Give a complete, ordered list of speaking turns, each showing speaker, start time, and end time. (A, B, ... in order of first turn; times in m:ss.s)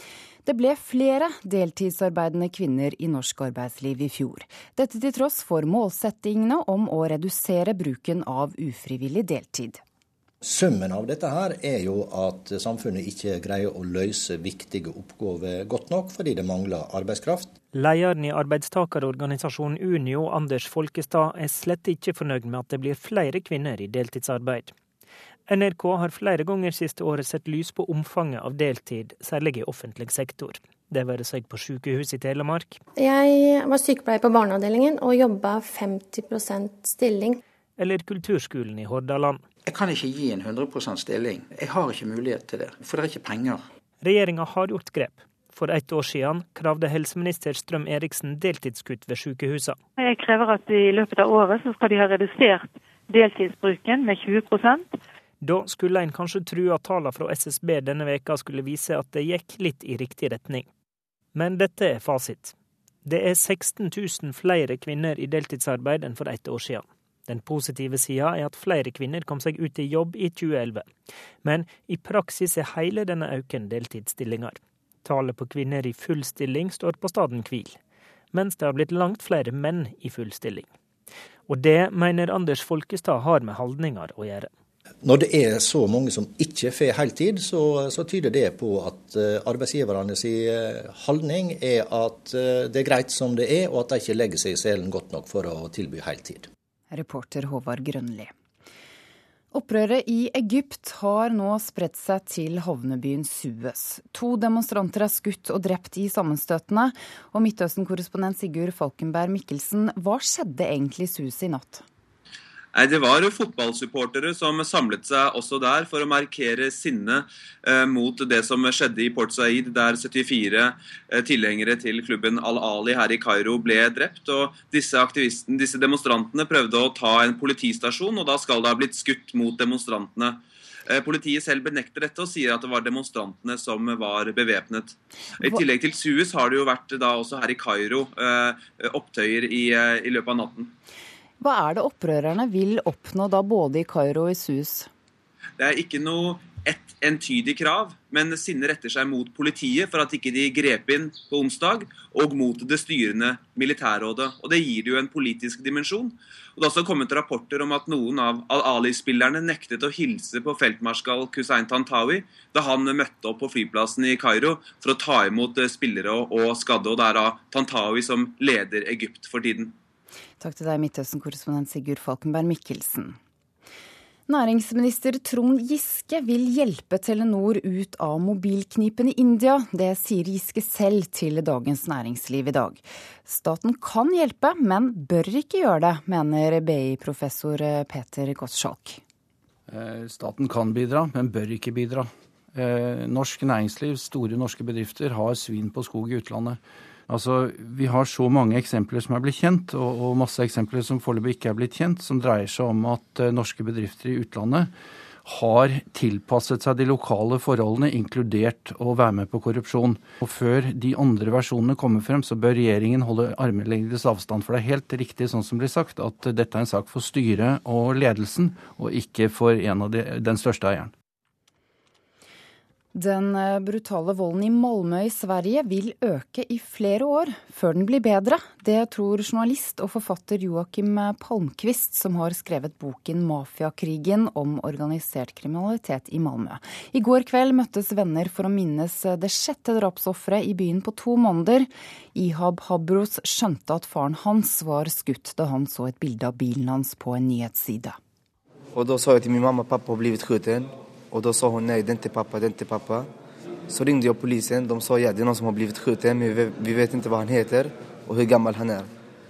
0:00.4-0:09.8 A
0:10.4-0:17.5 B
0:17.7-0:24.7 C
0:25.5-0:32.8 C
0:33.0-0:37.4 D
0:37.8-0:39.4 C
0:39.6-0:43.6 E
0:44.0-0:49.8 C
0:50.0-0:55.0 F
0:55.4-1:00.7 C
1:01.3-1:02.5 C
1:03.0-1:10.9 C
1:11.4-1:17.8 C
1:18.3-1:20.7 C
1:21.5-1:24.5 C
1:25.0-1:36.5 B
1:36.9-1:38.3 A
1:39.5-1:51.8 A
1:52.8-2:20.7 G
2:21.4-2:24.9 A
2:25.6-2:49.7 G
2:50.4-2:53.2 A
2:54.3-3:09.0 A
3:09.7-3:16.6 H
3:17.1-3:24.7 H
3:25.2-3:40.9 H
3:43.0-4:08.0 A
4:08.8-4:13.1 I
4:13.7-4:18.9 I